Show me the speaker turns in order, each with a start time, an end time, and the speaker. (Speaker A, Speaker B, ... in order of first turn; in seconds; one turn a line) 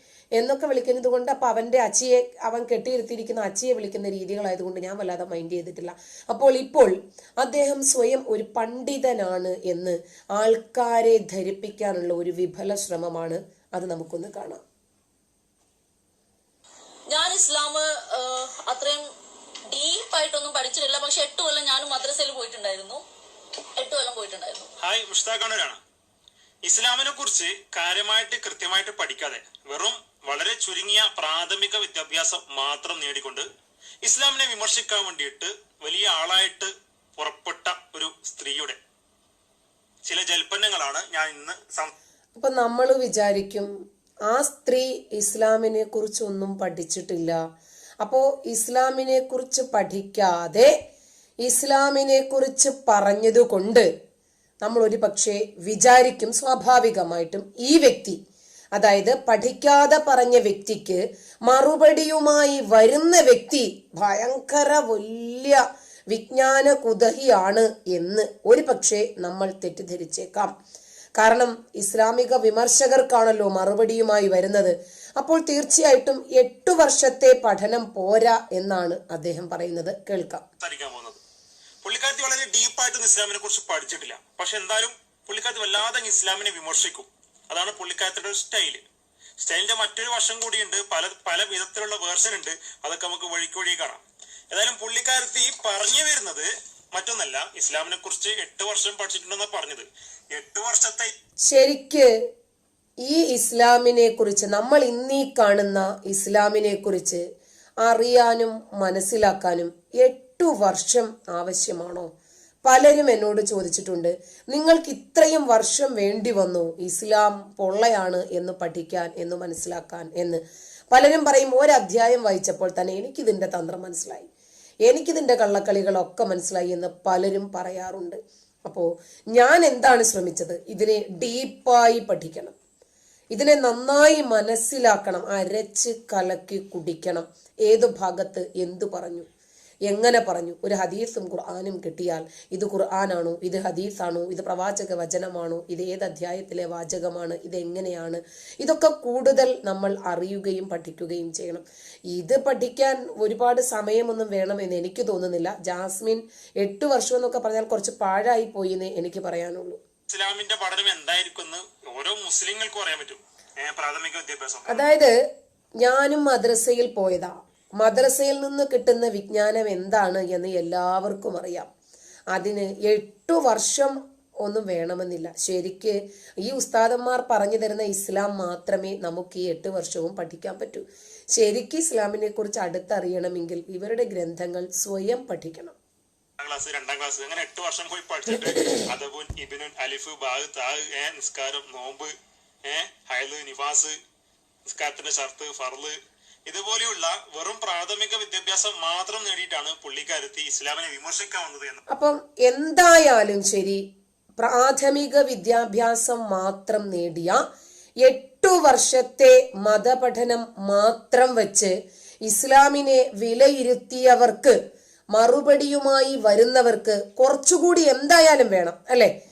Speaker A: 0.4-14.6
Speaker B: 17.1-19.1
Speaker B: 19.7-23.0
Speaker B: 23.8-24.7
Speaker C: 24.8-25.8
Speaker C: 26.6-33.5
Speaker C: 34.0-38.8
Speaker C: 40.0-41.9
Speaker A: 42.4-43.7
Speaker A: 44.3-47.4
Speaker A: 48.0-50.7
Speaker A: 51.4-53.9
Speaker A: 54.6-58.2
Speaker A: 58.8-70.5
Speaker A: 71.2-80.4
Speaker C: 80.6-81.2
Speaker C: 81.8-88.8
Speaker C: 89.4-101.1
Speaker A: 101.5-102.1
Speaker A: 103.0-107.2
Speaker A: 107.8-112.1
Speaker A: 112.6-120.4
Speaker A: 120.9-124.3
Speaker A: 124.9-132.6
Speaker A: 133.3-139.2
Speaker A: 139.9-159.8
Speaker C: 160.1-164.9
Speaker A: 164.7-165.1
Speaker A: 165.8-171.7
Speaker A: 172.3-180.8
Speaker A: 181.3-185.8
Speaker C: 186.4-193.9
Speaker C: 194.6-201.8
Speaker A: 201.9-203.8
Speaker A: 204.4-207.4
Speaker A: 208.0-214.6
Speaker A: 215.1-219.1